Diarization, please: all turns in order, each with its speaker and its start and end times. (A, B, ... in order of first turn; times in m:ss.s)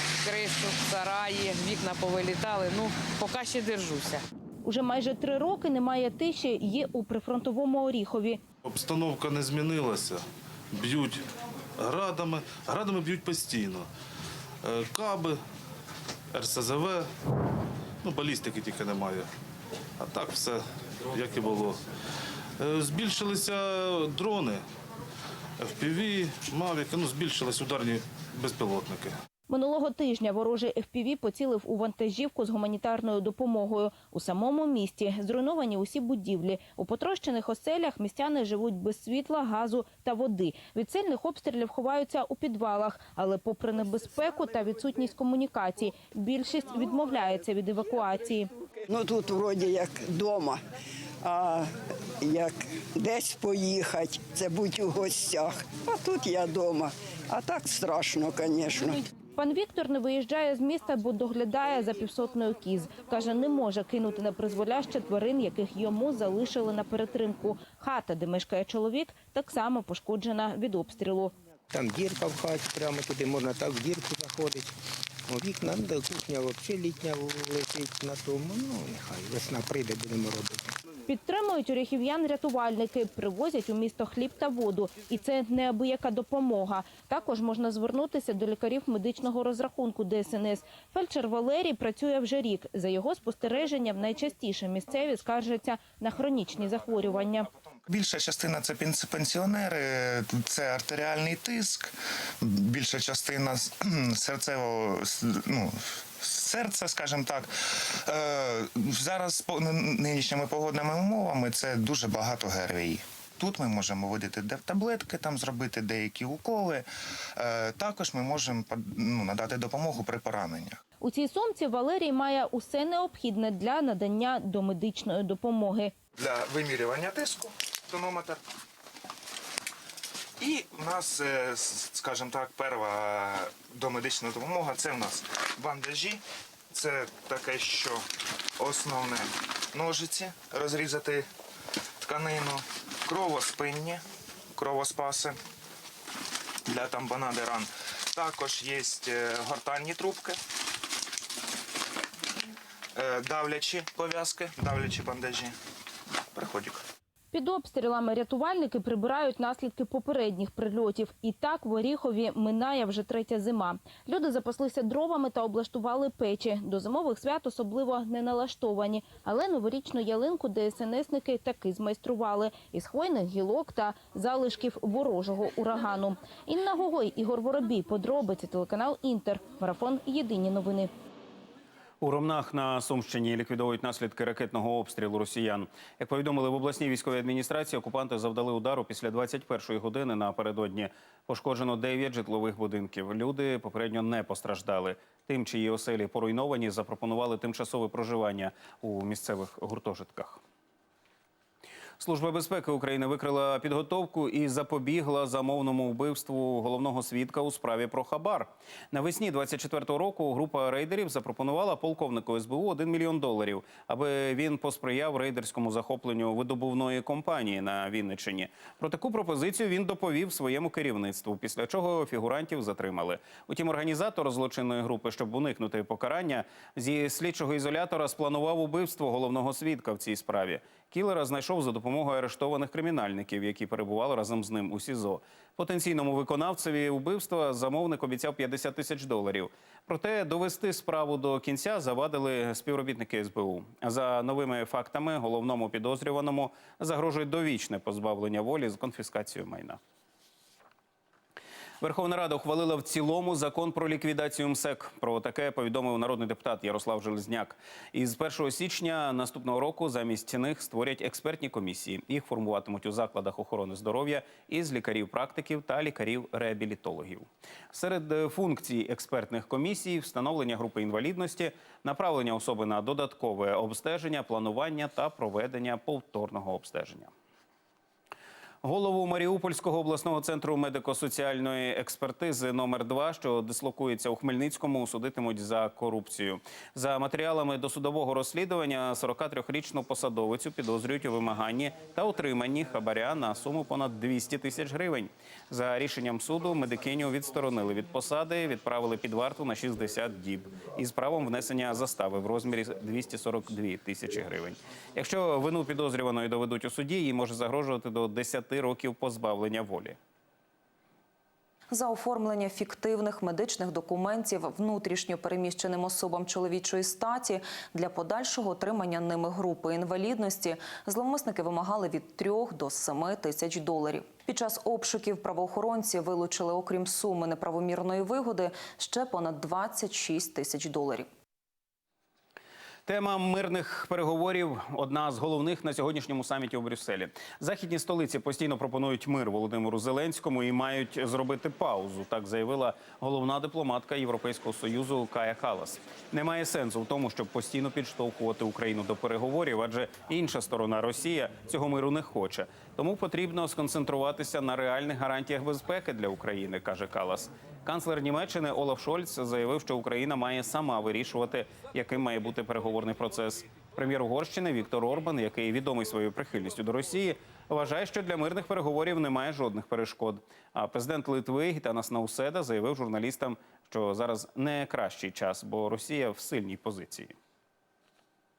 0:00.2-0:04.2 A
0:04.6-0:08.4 B
0:08.6-0:10.2 C
0:10.8-0:11.2 C
0:11.8-0:13.8 C
0:14.6-0:15.4 C
0:16.4-0:17.0 C
0:18.0-0:19.3 C
0:20.0-0:20.6 C
0:21.1-0:21.8 C
0:22.6-0:24.6 C
0:25.6-0:29.1 C
0:29.5-0:48.5 B
0:48.9-0:50.6 D
0:51.2-0:59.0 D
0:59.3-1:11.3 B
1:11.7-1:14.6 E
1:15.3-1:20.6 E
1:21.0-1:37.5 B
1:37.9-2:00.8 F
2:01.0-2:05.9 B
2:06.2-2:08.4 F
2:10.4-2:18.0 F
2:18.6-2:21.2 F
2:22.0-2:24.0 F
2:24.5-2:25.4 F
2:26.7-2:30.4 F
2:33.0-2:35.5 F
2:36.3-2:36.8 F
2:37.3-3:00.9 B
3:02.0-3:20.4 G
3:22.0-4:09.8 G
4:11.8-4:37.1 G
4:38.6-5:10.0 G
5:11.7-5:31.1 H
5:32.9-6:17.1 G